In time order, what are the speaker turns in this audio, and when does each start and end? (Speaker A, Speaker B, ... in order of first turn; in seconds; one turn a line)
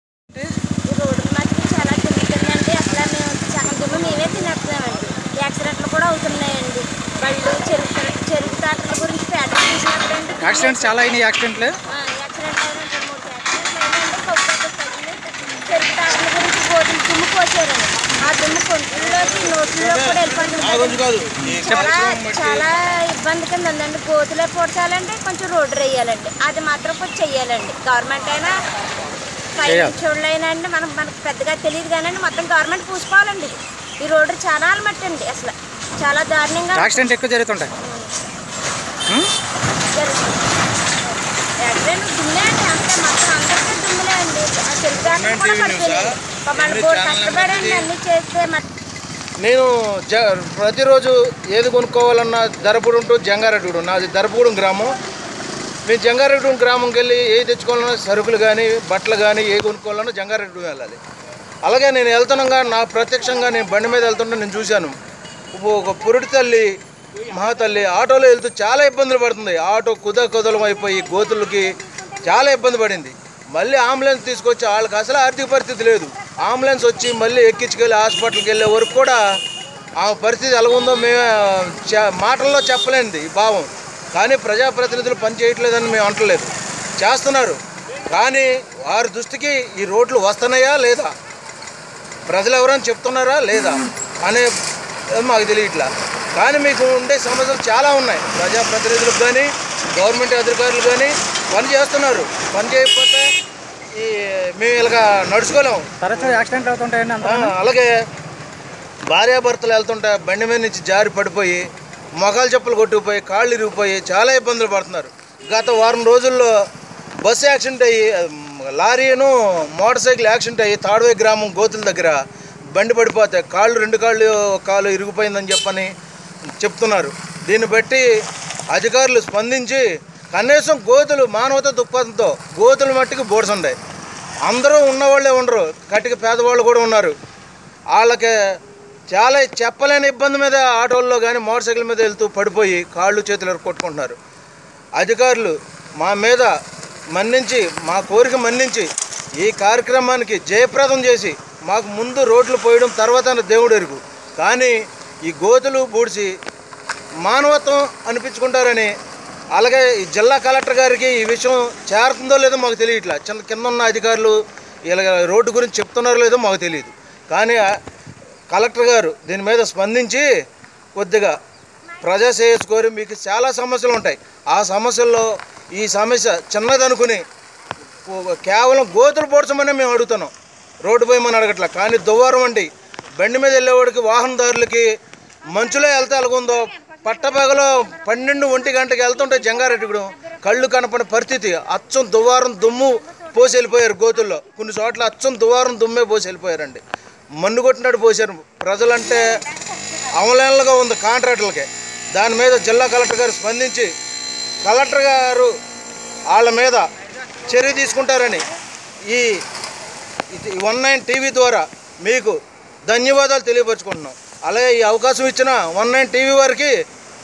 Speaker A: 0.9-11.1
Speaker B: 10.4-11.8
Speaker A: 11.9-21.0
Speaker C: 20.6-22.7
Speaker B: 21.4-21.9
Speaker A: 21.6-28.5
Speaker A: 29.6-37.1
Speaker B: 29.6-29.9
Speaker B: 36.7-37.7
Speaker A: 37.8-38.1
Speaker A: 39.9-40.4
Speaker A: 41.6-48.6
Speaker C: 45.0-47.9
Speaker C: 49.4-55.0
Speaker C: 55.9-61.0
Speaker C: 61.6-65.0
Speaker C: 65.5-66.7
Speaker C: 67.3-79.2
Speaker C: 80.0-87.6
Speaker C: 88.1-91.1
Speaker C: 92.3-94.5
Speaker C: 95.1-103.3
Speaker C: 104.0-106.0
Speaker B: 106.0-107.5
Speaker C: 107.2-107.9
Speaker C: 109.1-111.6
Speaker C: 112.2-116.5
Speaker C: 117.2-122.2
Speaker C: 122.7-125.9
Speaker C: 126.6-128.1
Speaker C: 128.7-133.8
Speaker C: 134.4-137.2
Speaker C: 137.9-138.4
Speaker C: 139.1-144.2
Speaker C: 145.0-146.5
Speaker C: 147.1-148.9
Speaker C: 149.4-156.3
Speaker C: 157.2-158.9
Speaker C: 159.5-164.4
Speaker C: 164.9-167.6
Speaker C: 168.5-170.3
Speaker C: 170.9-171.4
Speaker C: 172.0-177.3
Speaker C: 178.1-184.9
Speaker C: 185.5-196.8
Speaker C: 197.4-199.3
Speaker C: 200.2-203.9
Speaker C: 204.6-205.5
Speaker C: 206.3-206.8
Speaker C: 207.5-208.5
Speaker C: 209.1-209.4
Speaker C: 210.3-212.4
Speaker C: 212.9-216.8